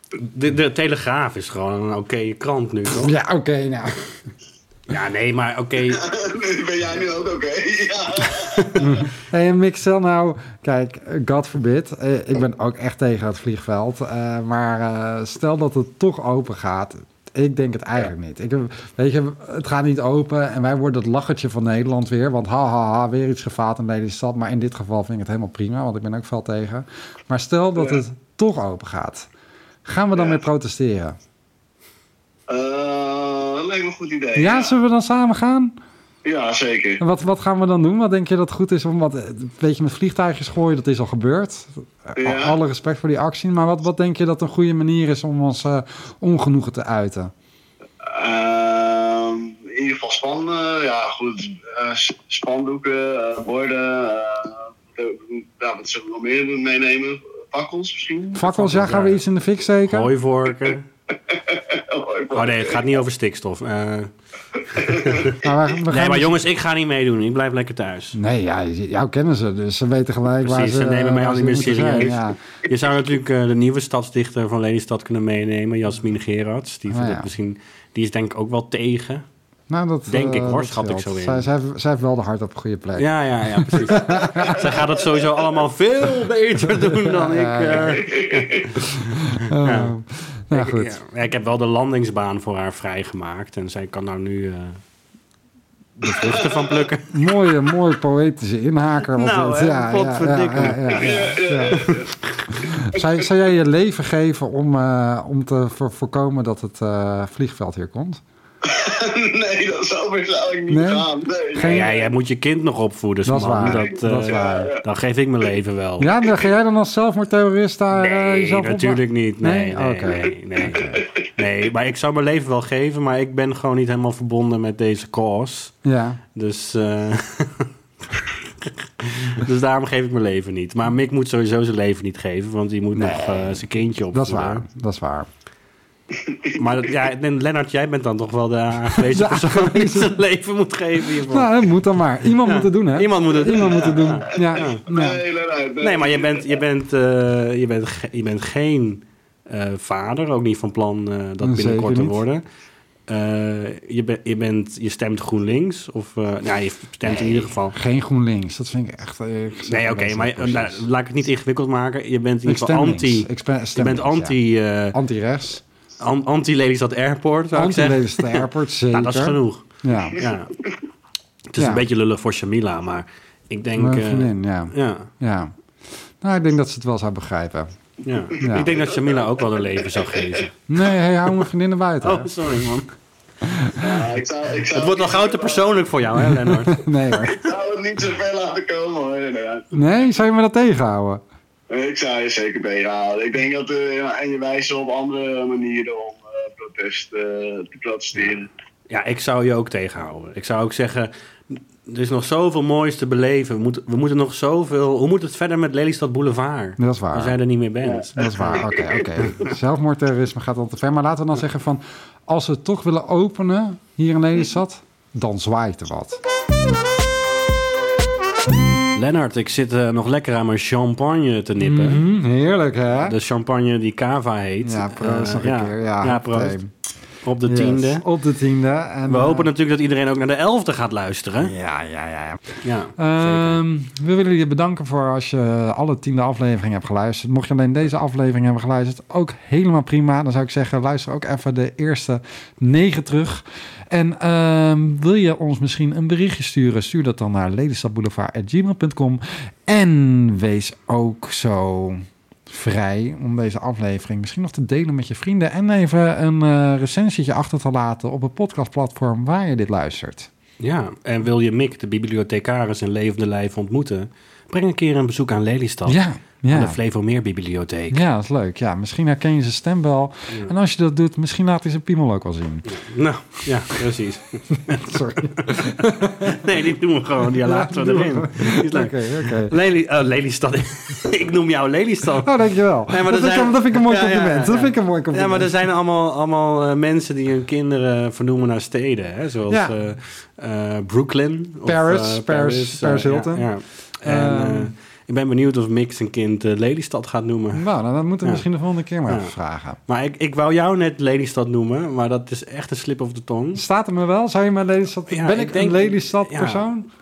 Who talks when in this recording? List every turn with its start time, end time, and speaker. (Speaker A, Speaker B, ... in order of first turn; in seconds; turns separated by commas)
Speaker A: 0.1-3.1, Speaker B: 2.9-4.0, Speaker A: 4.9-6.0, Speaker C: 5.9-9.0, Speaker A: 8.3-9.0, Speaker B: 8.8-29.3, Speaker B: 29.8-31.2, Speaker C: 30.1-30.4, Speaker C: 32.5-34.7, Speaker B: 34.4-35.8, Speaker C: 36.2-37.0, Speaker B: 37.0-47.3, Speaker C: 42.2-42.5, Speaker C: 48.0-58.5, Speaker B: 58.3-60.1, Speaker A: 58.4-59.2, Speaker A: 59.9-60.9, Speaker C: 61.3-63.0, Speaker A: 62.3-64.1, Speaker A: 64.7-68.2, Speaker C: 64.7-65.3, Speaker B: 65.3-66.3, Speaker B: 68.1-72.4, Speaker A: 70.4-79.2, Speaker B: 76.9-77.3, Speaker B: 79.7-84.7, Speaker A: 80.1-81.5, Speaker A: 83.0-89.9, Speaker B: 86.6-88.0, Speaker C: 87.7-88.7, Speaker B: 89.0-91.0, Speaker A: 90.5-94.8, Speaker B: 96.0-96.5, Speaker A: 96.0-97.2, Speaker C: 96.2-96.8, Speaker B: 97.1-101.8, Speaker A: 99.1-102.4, Speaker C: 100.9-102.1, Speaker B: 102.5-108.2, Speaker C: 108.6-112.1, Speaker B: 110.7-111.9, Speaker A: 111.6-116.2, Speaker B: 113.2-114.5, Speaker C: 113.6-114.8, Speaker B: 116.0-121.0, Speaker A: 117.9-125.7, Speaker B: 125.8-126.2, Speaker A: 126.3-134.6, Speaker B: 132.9-135.3, Speaker C: 136.1-136.6, Speaker A: 136.6-141.5, Speaker B: 138.9-140.2, Speaker B: 141.2-145.2, Speaker A: 142.4-144.8, Speaker C: 143.5-146.6, Speaker A: 145.8-152.4, Speaker B: 151.4-152.2, Speaker A: 153.1-157.8, Speaker B: 157.3-160.8, Speaker A: 159.7-165.0, Speaker B: 162.4-164.4, Speaker B: 164.9-165.6, Speaker A: 166.0-170.5, Speaker B: 167.5-170.2, Speaker A: 171.5-175.1, Speaker B: 171.6-171.8, Speaker B: 173.8-175.5, Speaker B: 176.2-177.7, Speaker A: 178.0-180.6, Speaker B: 178.4-178.7, Speaker C: 180.0-180.3, Speaker B: 180.7-182.3, Speaker A: 182.0-182.9, Speaker B: 183.4-184.0, Speaker C: 183.8-185.7, Speaker A: 184.7-187.4, Speaker B: 186.3-187.4, Speaker C: 187.3-189.8, Speaker B: 189.7-191.2, Speaker C: 191.7-198.5, Speaker A: 198.9-208.7, Speaker B: 206.8-207.4, Speaker C: 207.8-209.2, Speaker B: 208.2-216.2, Speaker A: 218.9-222.0, Speaker B: 221.6-223.2, Speaker A: 223.0-226.6, Speaker B: 224.6-226.7, Speaker A: 227.2-228.0, Speaker B: 227.4-229.5, Speaker A: 229.1-231.5, Speaker B: 231.4-260.3, Speaker A: 232.6-233.6, Speaker A: 260.6-268.0, Speaker B: 265.9-266.8, Speaker B: 267.9-272.7, Speaker A: 272.6-282.3, Speaker B: 274.7-276.4, Speaker B: 277.4-279.5, Speaker B: 282.2-285.5, Speaker A: 282.9-297.6, Speaker B: 289.5-289.8, Speaker B: 291.6-293.5, Speaker B: 294.0-294.7, Speaker B: 297.5-299.8, Speaker A: 299.1-299.3, Speaker A: 299.9-303.6, Speaker B: 303.5-306.9, Speaker A: 305.1-306.6